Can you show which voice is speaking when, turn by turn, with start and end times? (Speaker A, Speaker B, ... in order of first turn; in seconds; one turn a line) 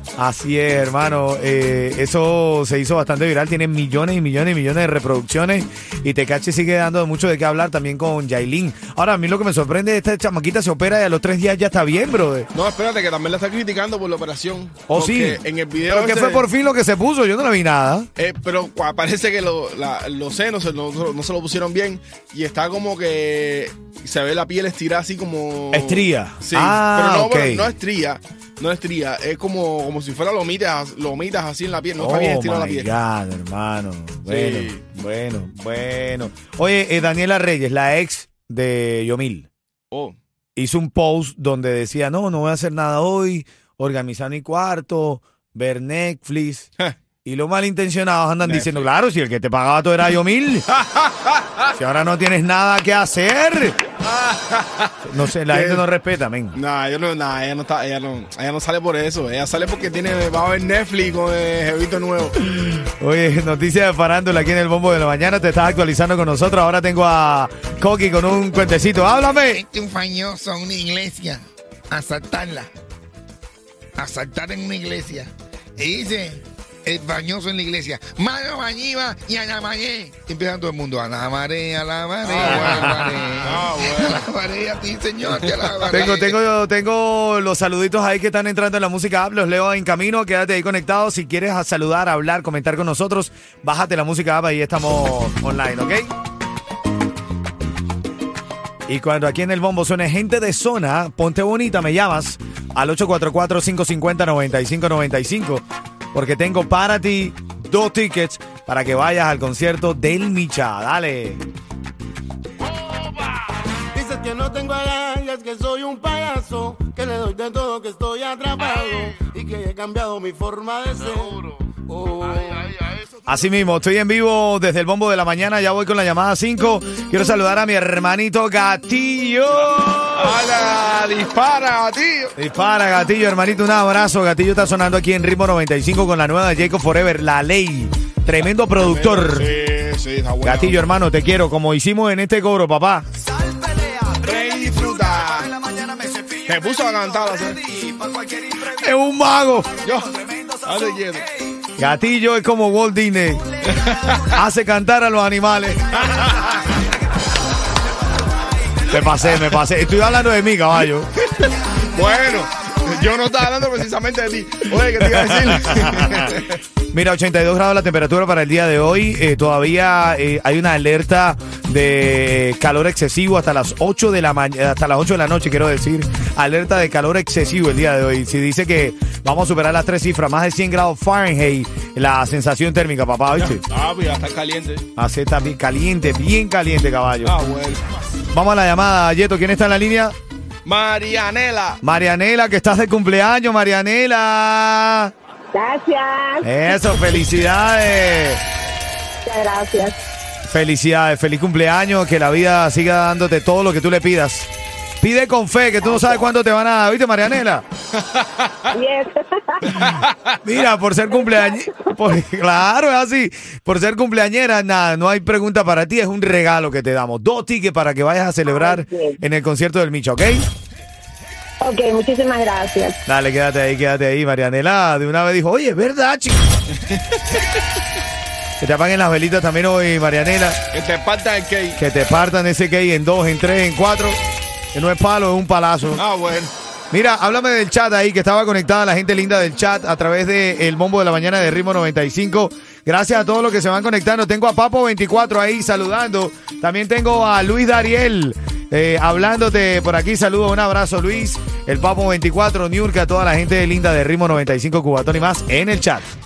Speaker A: 0.2-12.5
Speaker B: 12.5-16.5
Speaker A: 14.9-18.1
Speaker B: 18.2-33.0
Speaker A: 25.7-27.7
Speaker A: 32.0-39.5
Speaker B: 34.3-34.8
Speaker B: 39.9-40.2
Speaker A: 40.6-46.7
Speaker A: 47.2-50.6
Speaker B: 48.4-48.9
Speaker B: 50.8-51.6
Speaker A: 51.8-53.8
Speaker B: 54.0-55.0
Speaker A: 55.0-56.6
Speaker B: 55.5-55.8
Speaker B: 56.5-62.4
Speaker A: 62.5-69.6
Speaker C: 69.5-72.7
Speaker C: 74.0-86.4
Speaker B: 82.2-84.2
Speaker A: 82.3-83.2
Speaker A: 85.8-96.1
Speaker A: 98.9-111.4
Speaker B: 112.8-113.3
Speaker D: 114.0-122.6
Speaker B: 118.6-119.2
Speaker B: 121.0-123.0
Speaker A: 123.3-130.4
Speaker B: 130.2-132.3
Speaker A: 132.4-139.5
Speaker B: 138.8-140.8
Speaker A: 140.4-156.9
Speaker B: 144.2-145.5
Speaker B: 146.5-147.6
Speaker B: 149.8-151.2
Speaker B: 153.6-154.4
Speaker B: 156.0-156.5
Speaker A: 158.7-161.1
Speaker B: 159.2-159.5
Speaker B: 161.3-166.6
Speaker A: 165.0-166.3
Speaker A: 166.9-183.6
Speaker B: 183.4-184.8
Speaker A: 185.0-187.3
Speaker B: 187.2-187.8
Speaker A: 188.3-190.1
Speaker B: 190.7-191.8
Speaker A: 191.8-195.1
Speaker E: 195.5-196.5
Speaker A: 196.4-198.4
Speaker E: 199.2-200.0
Speaker A: 200.5-204.5
Speaker A: 205.0-207.6
Speaker B: 208.2-208.6
Speaker E: 208.7-209.7
Speaker B: 209.8-210.1
Speaker A: 210.4-220.4
Speaker E: 211.2-211.6
Speaker E: 218.5-219.2
Speaker E: 221.6-223.0
Speaker A: 223.1-226.4
Speaker B: 226.9-227.4
Speaker A: 228.6-230.6
Speaker B: 230.7-231.8
Speaker A: 231.8-234.2
Speaker A: 234.7-236.0
Speaker B: 236.0-236.5
Speaker A: 236.9-256.1